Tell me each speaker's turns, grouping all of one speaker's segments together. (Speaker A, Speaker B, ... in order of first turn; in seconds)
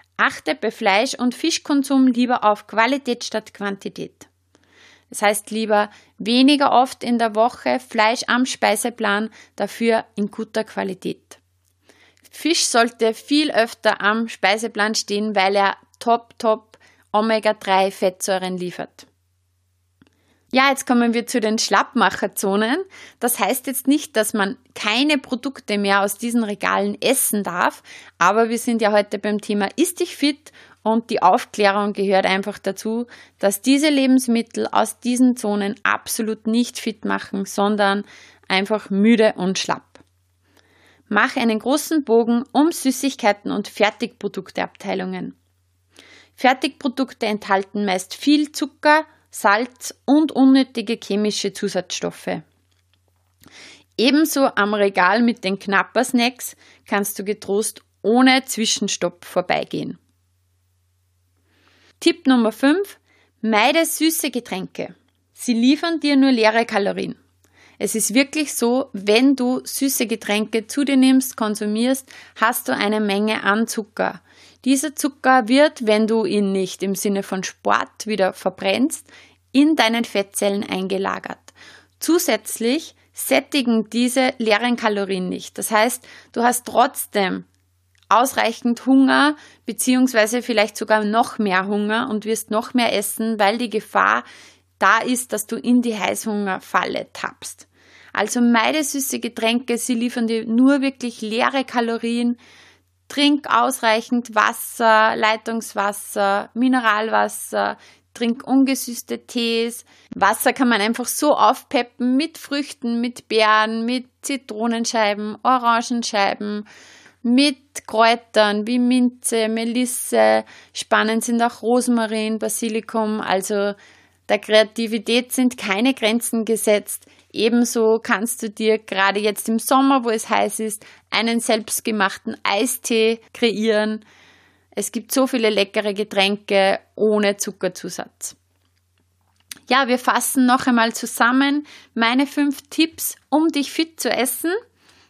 Speaker A: 0.2-4.3, 5.1-11.4, 12.3-19.1, 20.5-40.0, 41.1-45.4, 46.4-52.4, 54.0-60.0, 62.0-67.2, 67.8-87.5, 88.1-94.2, 94.8-102.4, 103.1-116.7, 117.2-123.8, 124.3-134.0, 134.8-138.4, 139.7-144.6